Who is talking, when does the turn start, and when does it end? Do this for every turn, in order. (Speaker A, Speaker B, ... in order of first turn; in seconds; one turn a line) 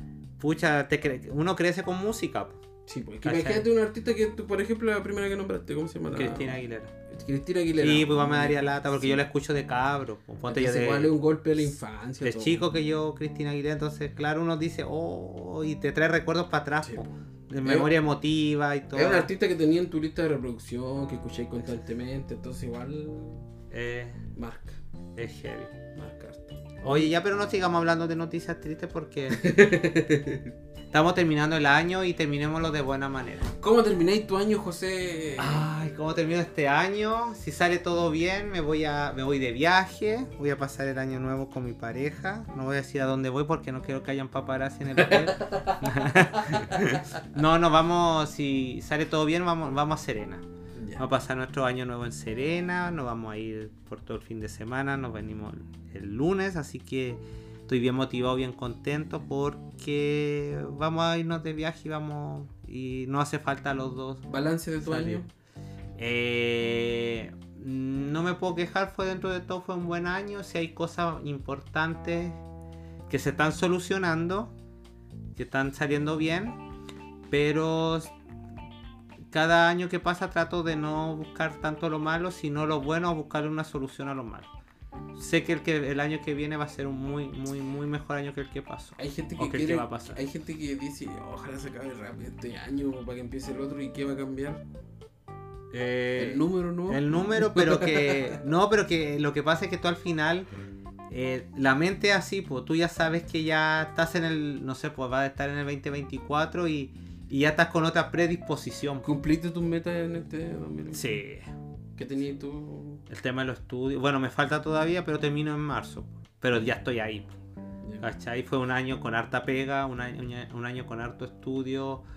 Speaker A: 0.4-2.6
Speaker B: 2.9-6.6
Speaker A: 3.2-3.6
Speaker A: 6.1-6.9
Speaker B: 7.1-9.2
Speaker A: 7.8-11.1
Speaker B: 10.5-12.6
Speaker A: 12.2-19.3
Speaker B: 16.8-17.9
Speaker B: 18.9-23.4
Speaker A: 23.7-24.2
Speaker B: 24.3-24.8
Speaker A: 25.1-25.7
Speaker B: 25.9-27.1
Speaker A: 26.8-29.6
Speaker B: 29.3-30.5
Speaker A: 30.9-33.5
Speaker B: 33.6-35.6
Speaker A: 35.4-50.4
Speaker B: 45.0-46.9
Speaker B: 50.8-51.0
Speaker A: 51.0-64.2
Speaker B: 64.3-65.3
Speaker A: 64.8-65.2
Speaker A: 66.0-72.4
Speaker A: 73.1-74.5
Speaker A: 75.4-76.6
Speaker A: 77.3-78.1
Speaker A: 79.3-84.5
Speaker A: 85.1-90.2
Speaker B: 89.0-94.6
Speaker A: 95.7-100.5
Speaker B: 96.1-98.4
Speaker A: 101.1-109.0
Speaker B: 109.0-111.1
Speaker A: 110.9-111.5
Speaker B: 112.0-113.0
Speaker A: 113.1-117.3
Speaker B: 117.8-118.1
Speaker A: 118.0-122.0